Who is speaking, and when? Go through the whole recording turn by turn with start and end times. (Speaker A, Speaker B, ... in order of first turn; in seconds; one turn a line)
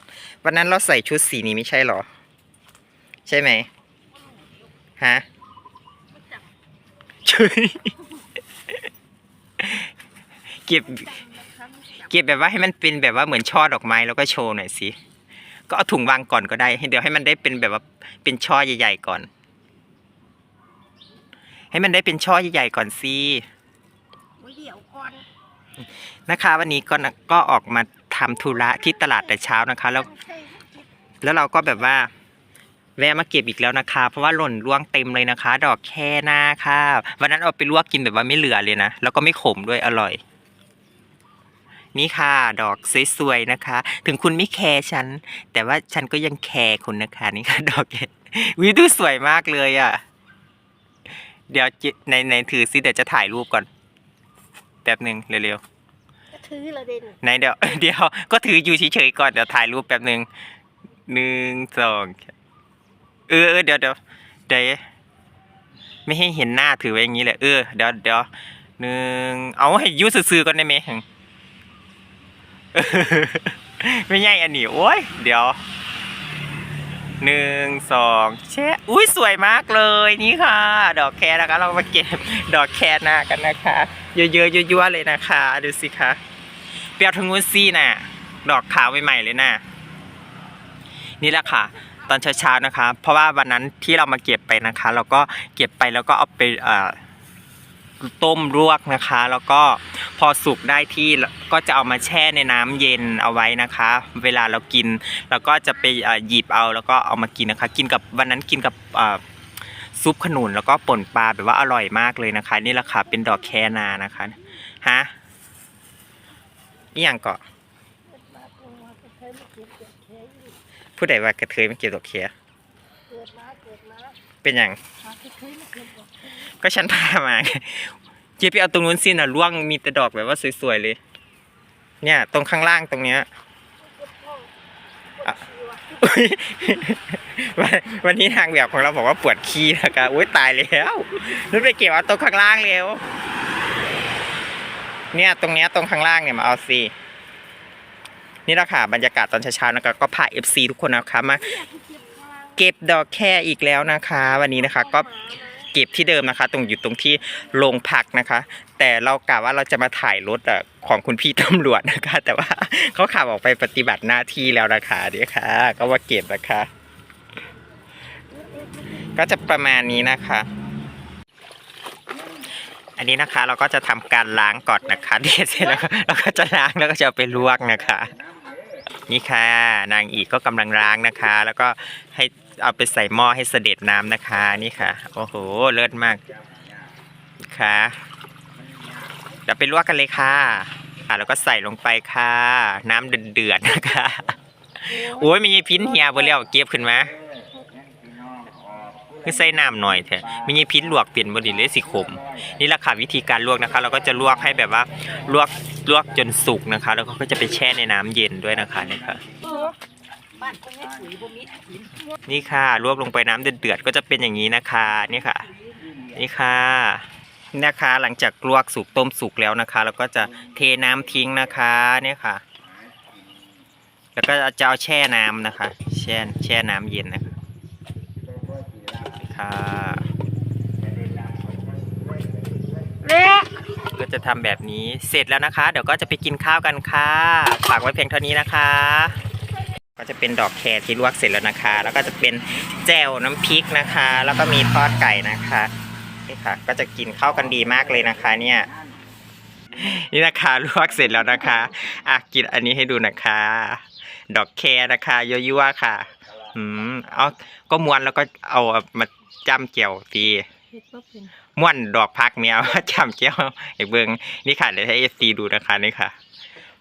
Speaker A: 0.4-2.0
Speaker A: 3.3-3.7
Speaker A: 5.0-5.2
Speaker A: 7.2-8.0
Speaker A: 9.6-9.9
Speaker A: 10.7-11.2
Speaker A: 12.0-14.9
Speaker A: 15.7-19.3
Speaker A: 21.7-23.4
Speaker B: 24.4-25.2
Speaker A: 26.3-30.1
Speaker A: 31.2-32.1
Speaker A: 33.0-40.2
Speaker A: 41.9-50.0
Speaker A: 51.5-53.7
Speaker A: 54.8-55.6
Speaker B: 56.3-57.2
Speaker A: 57.2-60.3
Speaker A: 61.1-62.3
Speaker A: 63.3-64.8
Speaker A: 66.0-68.3
Speaker A: 68.8-71.0
Speaker A: 72.7-75.6
Speaker A: 77.2-86.2
Speaker A: 87.0-89.6
Speaker A: 91.2-97.0
Speaker A: 98.0-109.2
Speaker A: 109.9-115.1
Speaker A: 116.9-117.4
Speaker B: 118.1-120.5
Speaker A: 121.0-122.3
Speaker B: 123.1-124.2
Speaker A: 124.4-124.8
Speaker B: 125.0-126.1
Speaker A: 126.4-131.0
Speaker A: 132.0-133.3
Speaker B: 133.9-134.5
Speaker B: 135.2-135.8
Speaker A: 135.3-143.0
Speaker A: 145.1-146.9
Speaker A: 148.5-151.6
Speaker B: 151.7-152.2
Speaker A: 152.6-166.7
Speaker A: 169.2-170.5
Speaker A: 172.9-178.2
Speaker A: 179.1-186.2
Speaker A: 187.4-188.0
Speaker A: 189.4-197.1
Speaker A: 199.2-209.2
Speaker B: 209.4-209.7
Speaker B: 210.4-211.6
Speaker A: 212.3-215.5
Speaker A: 216.1-222.4
Speaker A: 224.2-227.3
Speaker A: 229.2-230.1
Speaker B: 233.0-233.5
Speaker A: 233.9-239.2
Speaker A: 240.0-245.7
Speaker A: 246.3-248.7
Speaker A: 249.7-260.5
Speaker B: 260.8-261.3
Speaker A: 261.6-266.1